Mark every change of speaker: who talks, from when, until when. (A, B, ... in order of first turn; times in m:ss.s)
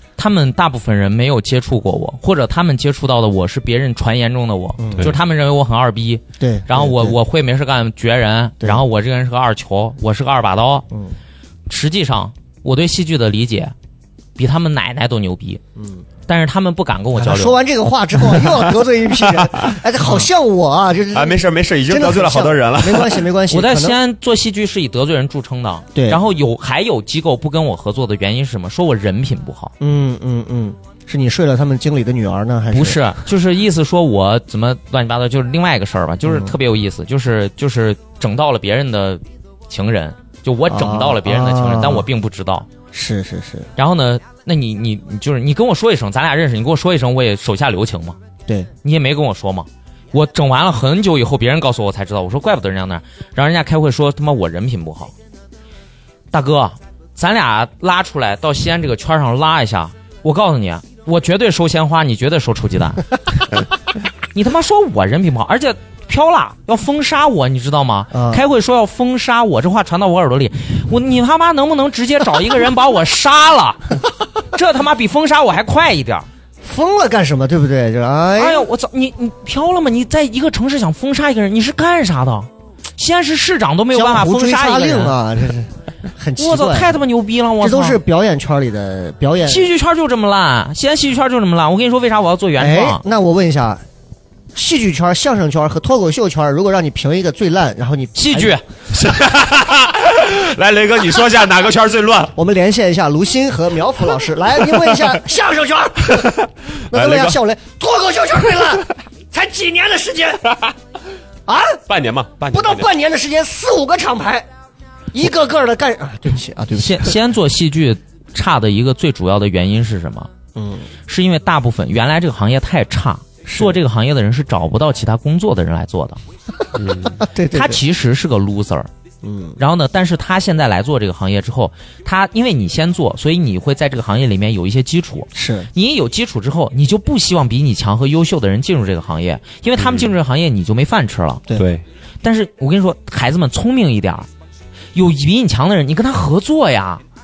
0:00.2-0:10.9 A
0:04.8-0:05.1 B
0:06.4-0:07.2 B
0:10.9-0:11.2 B
0:11.7-0:13.7 A
0:14.4-0:15.6 A
0:15.8-0:16.0 B
0:16.3-0:17.6 A
0:17.1-0:24.0 B
0:21.1-0:23.2 C
0:23.5-0:29.7 A
0:25.9-0:26.2 B
0:29.8-0:33.1 B
0:32.7-0:42.7 A
0:36.2-0:36.5 B
0:40.7-0:42.1 B
0:42.9-0:43.7 B
0:43.8-0:48.2 A
0:48.8-0:55.1 A
0:56.3-1:03.1 A
1:04.3-1:16.3 A
1:08.1-1:08.4 B
1:16.6-1:18.6 B
1:18.4-1:25.2 A
1:23.9-1:27.0 B
1:26.4-1:28.0 A
1:27.6-1:29.7 B
1:29.4-1:33.0 A
1:32.6-1:33.8 B
1:34.5-1:38.6 B
1:38.1-1:38.6 A
1:38.9-1:42.4 C
1:42.3-1:50.6 B
1:46.9-1:47.4 C
1:51.5-1:51.8 B
1:51.9-1:52.8 C
1:52.5-1:54.5 B
1:55.1-1:57.2 B
1:56.7-2:00.3 A
2:00.5-2:00.9 B
2:01.1-2:06.2 A
2:03.4-2:03.8 B
2:06.8-2:07.2 C
2:07.0-2:07.8 B
2:07.5-2:08.9 A
2:09.2-2:09.6 B
2:09.6-2:21.4 A
2:15.3-2:15.7 B
2:19.8-2:20.1 C
2:21.5-2:21.8 C
2:22.2-2:24.3 A
2:24.9-2:27.0 A